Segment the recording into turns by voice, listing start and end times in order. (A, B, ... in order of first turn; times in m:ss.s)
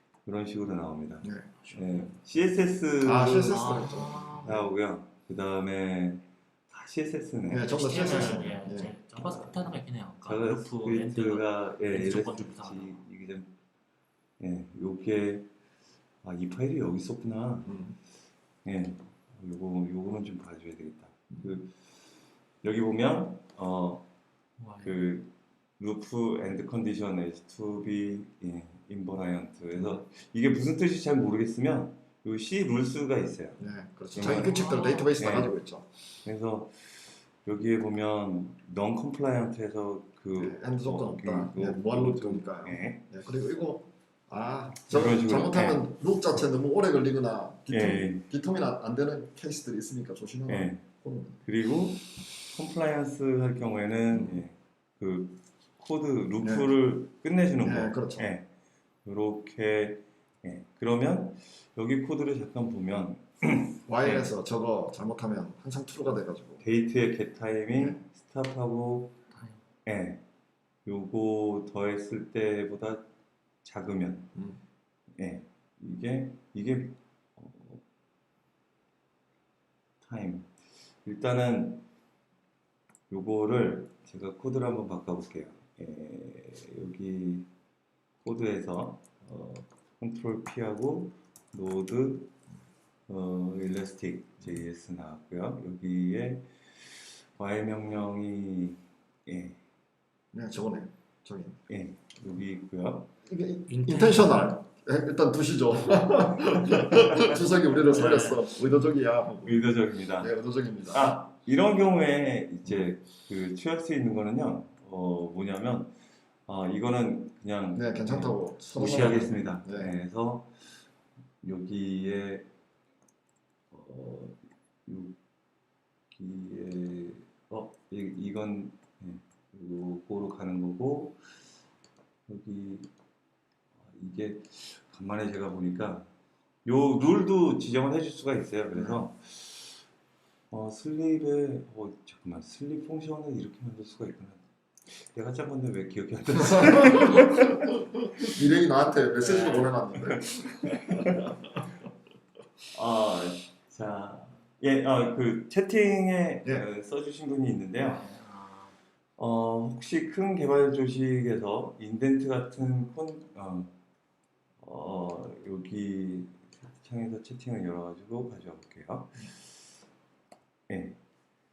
0:00.2-0:03.9 A
0:01.2-0:01.5 B
0:01.6-0:02.1 C
0:03.0-0:04.7 B
0:03.5-0:04.6 C
0:04.4-0:08.4 A
0:07.5-0:08.9 B
0:07.6-0:13.0 C
0:10.2-0:13.5 A
0:14.4-0:15.5 A
0:16.2-0:17.7 A
0:17.7-0:18.0 B
0:18.6-0:21.8 A
0:22.6-0:24.1 A
0:24.6-0:25.0 C
0:24.8-0:33.6 A
0:33.6-0:35.9 B
0:34.1-0:34.6 A
0:34.2-0:35.1 C
0:35.2-0:35.5 A
0:36.2-0:43.0 A
0:40.4-0:51.4 B
0:44.9-0:45.9 A
0:47.7-0:48.3 A
0:50.5-0:50.8 A
0:51.4-0:58.5 A
0:54.1-0:54.4 B
0:56.4-0:56.7 B
0:57.6-0:58.3 B
0:59.0-1:04.3 A
1:03.9-1:06.6 B
1:06.6-1:09.2 A
1:09.8-1:10.2 A
1:10.8-1:13.0 A
1:13.6-1:14.3 A
1:14.4-1:14.6 B
1:15.2-1:17.8 A
1:20.0-1:20.5 A
1:21.0-1:21.8 A
1:23.1-1:27.5 A
1:28.2-1:32.3 A
1:33.1-1:39.6 A
1:40.3-1:41.6 B
1:41.7-1:43.1 A
1:43.3-1:49.6 B
1:43.7-1:44.6 C
1:46.7-1:47.3 A
1:47.8-1:48.4 C
1:49.4-1:50.3 A
1:50.2-1:51.2 B
1:50.9-1:55.9 A
1:56.5-2:00.5 A
1:57.8-1:59.9 B
2:01.4-2:02.5 A
2:03.7-2:05.2 A
2:06.1-2:11.2 A
2:12.3-2:12.9 A
2:13.8-2:16.1 A
2:16.6-2:19.8 A
2:18.8-2:19.0 B
2:20.5-2:27.6 A
2:26.4-2:31.4 B
2:29.2-2:29.7 C
2:30.2-2:31.3 A
2:32.7-2:38.1 A
2:37.8-2:38.7 C
2:39.2-2:43.7 A
2:44.6-2:49.2 A
2:50.7-2:51.0 A